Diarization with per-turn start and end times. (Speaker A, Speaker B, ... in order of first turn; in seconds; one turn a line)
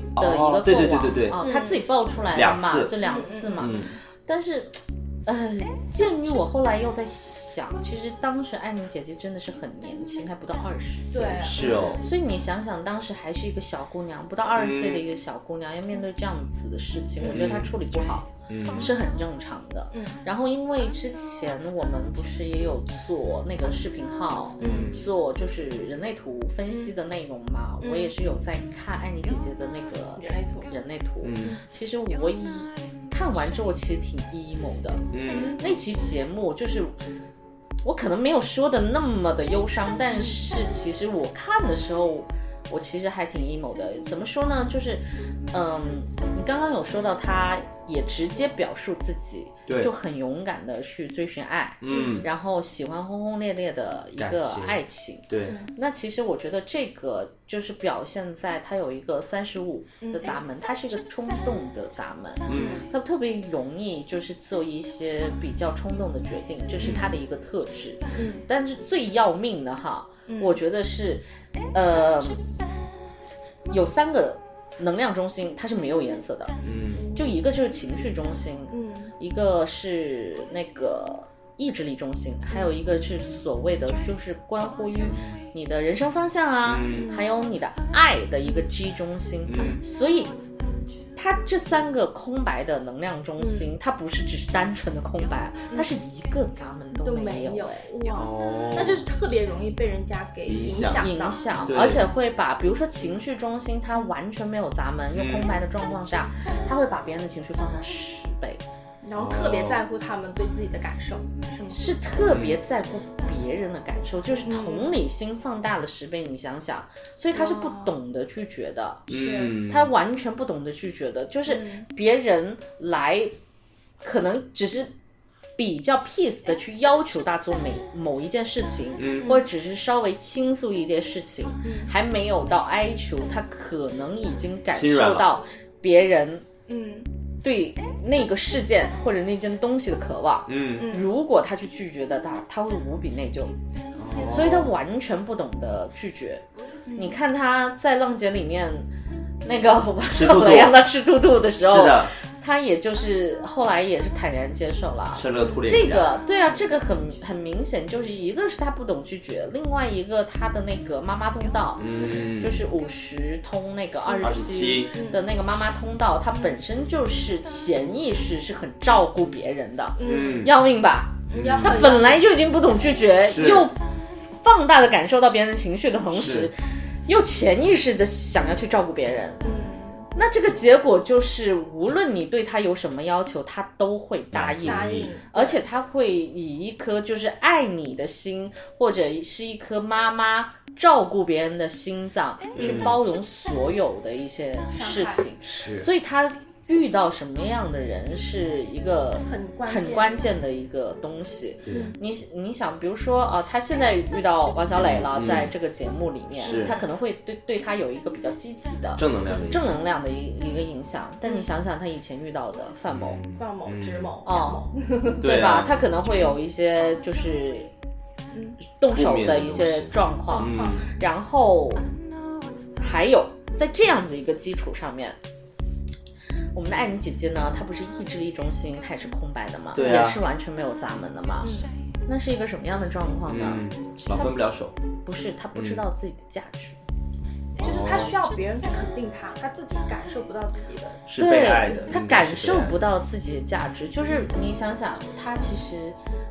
Speaker A: 0.2-1.4
Speaker B: 0.2-35.0
Speaker C: 1.4-1.8
Speaker A: 2.3-2.9
Speaker C: 3.0-3.9
Speaker A: 3.6-3.9
Speaker C: 11.1-11.9
Speaker A: 11.4-12.0
Speaker A: 14.6-15.0
Speaker A: 17.2-17.7
Speaker A: 18.5-18.9
Speaker C: 19.9-20.2
Speaker C: 24.6-24.9
Speaker A: 24.6-25.1
Speaker C: 27.8-28.1
Speaker C: 30.2-30.7
Speaker A: 31.2-31.6
Speaker A: 35.1-35.5
Speaker C: 35.3-35.8
Speaker B: 35.6-37.0
Speaker B: 37.8-72.5
Speaker A: 51.8-52.3
Speaker C: 51.9-52.3
Speaker A: 54.2-55.5
Speaker C: 55.4-55.7
Speaker C: 60.0-60.4
Speaker A: 62.5-62.8
Speaker C: 62.5-62.8
Speaker C: 66.8-67.1
Speaker C: 68.1-68.4
Speaker C: 70.3-70.6
Speaker B: 73.7-76.5
Speaker A: 76.6-77.1
Speaker C: 77.0-77.2
Speaker B: 77.1-90.4
Speaker C: 78.7-79.1
Speaker A: 86.7-87.2
Speaker C: 86.9-87.3
Speaker A: 89.5-89.8
Speaker B: 91.2-97.8
Speaker C: 93.4-93.7
Speaker C: 97.0-101.5
Speaker A: 98.1-99.1
Speaker A: 100.5-101.1
Speaker B: 101.0-108.6
Speaker A: 101.7-102.0
Speaker A: 105.2-105.5
Speaker C: 109.0-111.9
Speaker A: 109.2-109.8
Speaker B: 111.7-123.3
Speaker A: 112.2-112.6
Speaker C: 114.4-114.9
Speaker C: 117.3-118.0
Speaker A: 119.1-119.9
Speaker C: 119.1-119.6
Speaker C: 121.5-121.9
Speaker B: 124.0-124.9
Speaker B: 125.6-136.4
Speaker A: 129.0-129.3
Speaker C: 129.2-129.4
Speaker C: 131.6-131.9
Speaker A: 134.8-135.3
Speaker C: 136.7-137.1
Speaker B: 137.4-143.6
Speaker A: 140.5-140.9
Speaker C: 140.8-141.1
Speaker A: 144.0-144.7
Speaker C: 144.1-144.5
Speaker B: 144.3-146.4
Speaker C: 146.9-147.2
Speaker B: 146.9-148.9
Speaker B: 149.4-173.8
Speaker A: 150.1-150.8
Speaker A: 151.6-152.1
Speaker A: 155.1-156.1
Speaker A: 161.8-162.7
Speaker C: 164.1-164.4
Speaker A: 164.2-164.9
Speaker C: 164.9-165.2
Speaker C: 170.0-170.5
Speaker A: 170.0-170.5
Speaker C: 171.3-172.2
Speaker A: 171.3-171.9
Speaker A: 173.3-173.7
Speaker B: 174.3-179.4
Speaker A: 176.1-176.5
Speaker C: 179.4-180.1
Speaker B: 180.2-213.2
Speaker A: 184.3-185.1
Speaker C: 184.6-185.6
Speaker A: 192.6-193.0
Speaker C: 192.6-192.8
Speaker C: 194.7-195.2
Speaker A: 195.4-195.9
Speaker C: 199.3-200.2
Speaker A: 201.7-201.9
Speaker C: 201.7-201.9
Speaker A: 204.8-205.5
Speaker A: 206.4-206.8
Speaker C: 206.4-206.9
Speaker A: 209.0-209.8
Speaker A: 212.9-214.1
Speaker C: 213.3-215.2
Speaker B: 214.2-217.7
Speaker A: 215.2-215.7
Speaker C: 218.3-218.6
Speaker B: 218.6-221.9
Speaker A: 218.9-220.8
Speaker C: 220.3-220.9
Speaker B: 222.8-225.2
Speaker B: 226.5-231.5
Speaker A: 229.7-230.2
Speaker C: 231.4-231.7
Speaker B: 232.1-234.3
Speaker A: 233.3-234.8
Speaker B: 235.0-236.8
Speaker A: 235.6-235.8
Speaker A: 237.6-238.1
Speaker C: 237.6-241.0
Speaker A: 241.1-242.8
Speaker B: 241.2-246.0